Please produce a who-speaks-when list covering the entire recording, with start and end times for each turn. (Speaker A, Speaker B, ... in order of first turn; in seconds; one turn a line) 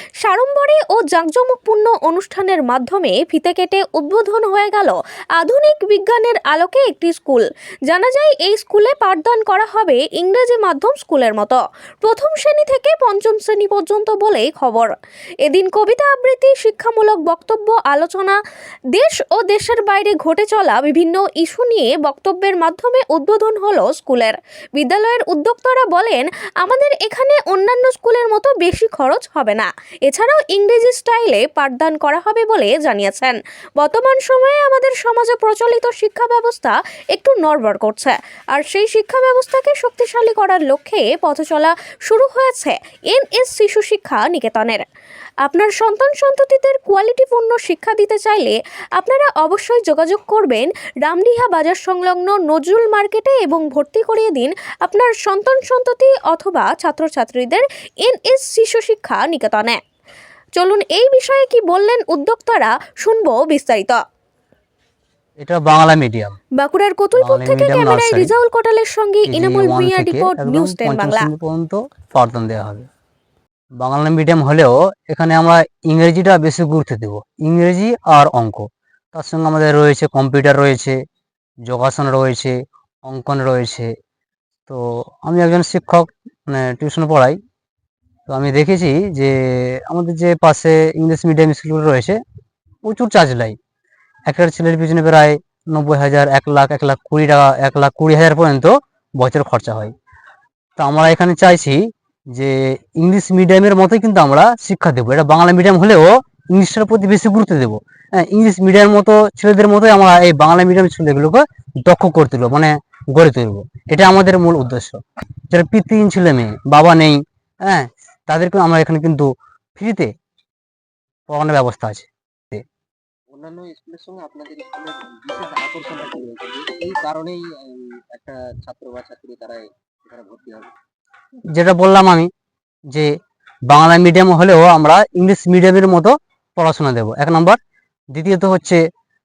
Speaker A: 0.2-14.9
Speaker A: 15.4-18.4
Speaker A: 18.9-44.8
Speaker A: 45.4-59.8
Speaker A: 60.6-64.0
Speaker B: 65.4-66.4
Speaker A: 66.6-71.3
Speaker B: 67.2-68.3
Speaker B: 69.3-72.9
Speaker B: 73.8-81.0
Speaker B: 81.7-83.9
Speaker B: 84.7-87.4
Speaker B: 88.3-92.2
Speaker B: 92.8-93.6
Speaker B: 94.3-99.9
Speaker B: 100.8-101.8
Speaker B: 102.3-120.1
Speaker B: 121.3-122.6
Speaker C: 123.3-130.7
Speaker B: 131.5-132.3
Speaker B: 133.7-137.6
Speaker B: 138.1-138.8